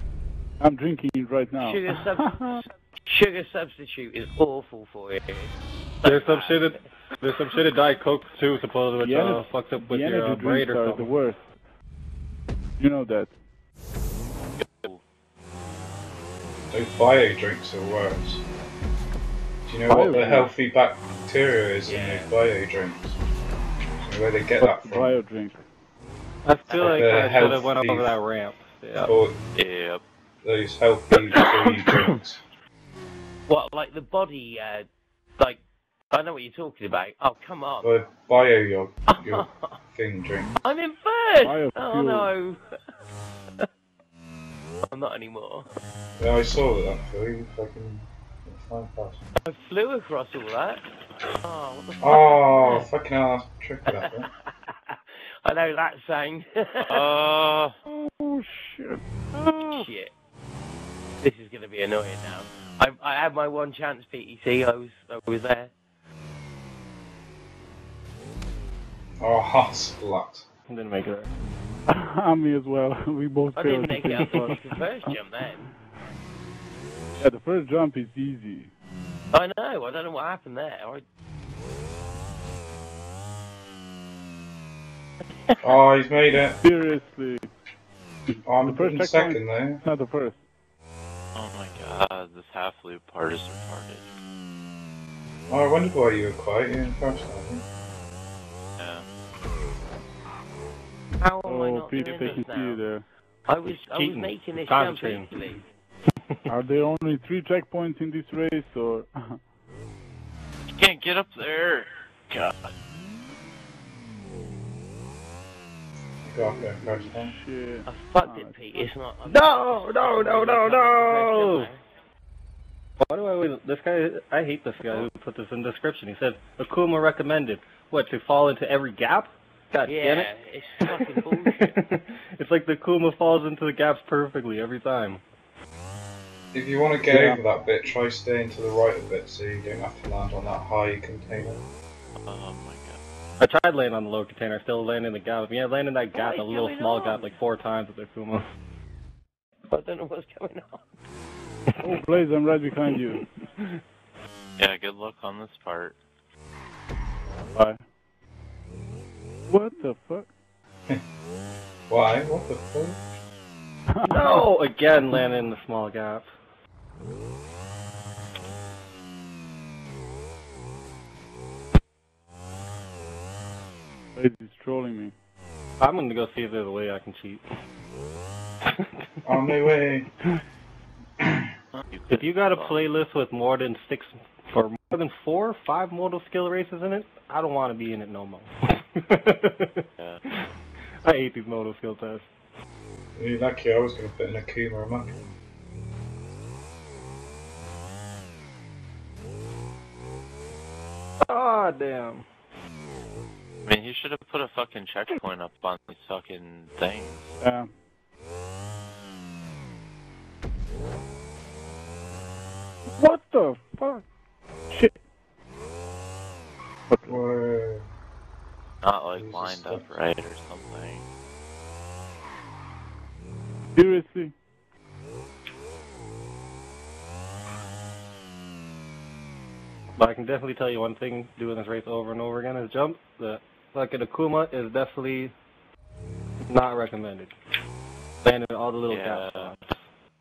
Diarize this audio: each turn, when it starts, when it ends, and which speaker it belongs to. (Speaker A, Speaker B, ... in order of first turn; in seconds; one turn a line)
Speaker A: 0.6-2.6
Speaker B: 1.6-6.7
Speaker C: 6.0-11.2
Speaker A: 9.0-11.4
Speaker A: 12.8-13.3
Speaker D: 14.6-15.0
Speaker E: 16.7-18.4
Speaker E: 19.6-23.1
Speaker A: 19.9-20.5
Speaker B: 21.9-22.1
Speaker E: 24.0-25.1
Speaker A: 24.6-25.6
Speaker C: 26.4-29.1
Speaker B: 26.7-27.4
Speaker E: 26.8-28.2
Speaker E: 29.0-29.4
Speaker D: 29.5-30.0
Speaker E: 30.4-32.4
Speaker B: 33.5-34.9
Speaker B: 35.4-37.9
Speaker E: 37.8-40.6
Speaker B: 39.2-39.7
Speaker B: 40.6-42.6
Speaker A: 41.4-42.3
Speaker B: 44.8-45.7
Speaker E: 46.2-49.2
Speaker B: 49.4-52.8
Speaker E: 52.0-54.3
Speaker B: 53.9-57.0
Speaker D: 56.9-57.7
Speaker A: 57.9-59.8
Speaker B: 59.7-60.1
Speaker B: 61.2-65.7
Speaker E: 69.2-70.4
Speaker C: 70.7-71.3
Speaker A: 71.9-75.2
Speaker B: 73.5-75.7
Speaker C: 74.2-74.6
Speaker A: 77.2-78.7
Speaker B: 79.3-81.0
Speaker E: 85.6-86.6
Speaker A: 86.6-87.5
Speaker A: 88.3-90.4
Speaker E: 88.5-89.8
Speaker D: 91.3-94.1
Speaker E: 95.5-97.6
Speaker D: 98.8-99.0
Speaker B: 101.2-102.8
Speaker A: 101.5-103.1
Speaker B: 103.5-105.6
Speaker C: 103.6-105.3
Speaker A: 106.5-109.4
Speaker D: 110.7-112.7
Speaker E: 116.2-117.3
Speaker A: 116.4-118.5
Speaker B: 117.9-121.8
Speaker C: 119.3-121.7
Speaker C: 123.0-135.2
Speaker B: 129.8-131.7
Speaker E: 136.5-141.6
Speaker C: 137.1-137.4
Speaker D: 142.2-143.0
Speaker C: 143.4-148.4
Speaker B: 146.1-147.3
Speaker B: 149.7-150.9
Speaker A: 151.8-153.3
Speaker D: 154.6-155.9
Speaker A: 157.5-157.8
Speaker A: 159.5-160.3
Speaker E: 161.9-163.0
Speaker A: 163.9-164.5
Speaker C: 164.1-166.3
Speaker A: 174.2-175.1
Speaker C: 175.8-177.4
Speaker C: 178.6-179.7
Speaker E: 179.2-180.1
Speaker D: 181.7-182.9
Speaker C: 182.1-190.4
Speaker C: 191.0-192.2
Speaker E: 193.2-195.2
Speaker C: 201.2-202.2
Speaker D: 203.6-207.3
Speaker A: 207.4-207.7
Speaker A: 213.0-214.0
Speaker A: 214.7-215.0
Speaker A: 216.9-217.2
Speaker E: 217.1-217.8
Speaker D: 218.8-221.0
Speaker E: 219.1-219.9
Speaker A: 223.7-224.3
Speaker C: 229.9-235.3
Speaker C: 236.5-237.3
Speaker C: 238.2-239.8
Speaker D: 238.8-239.5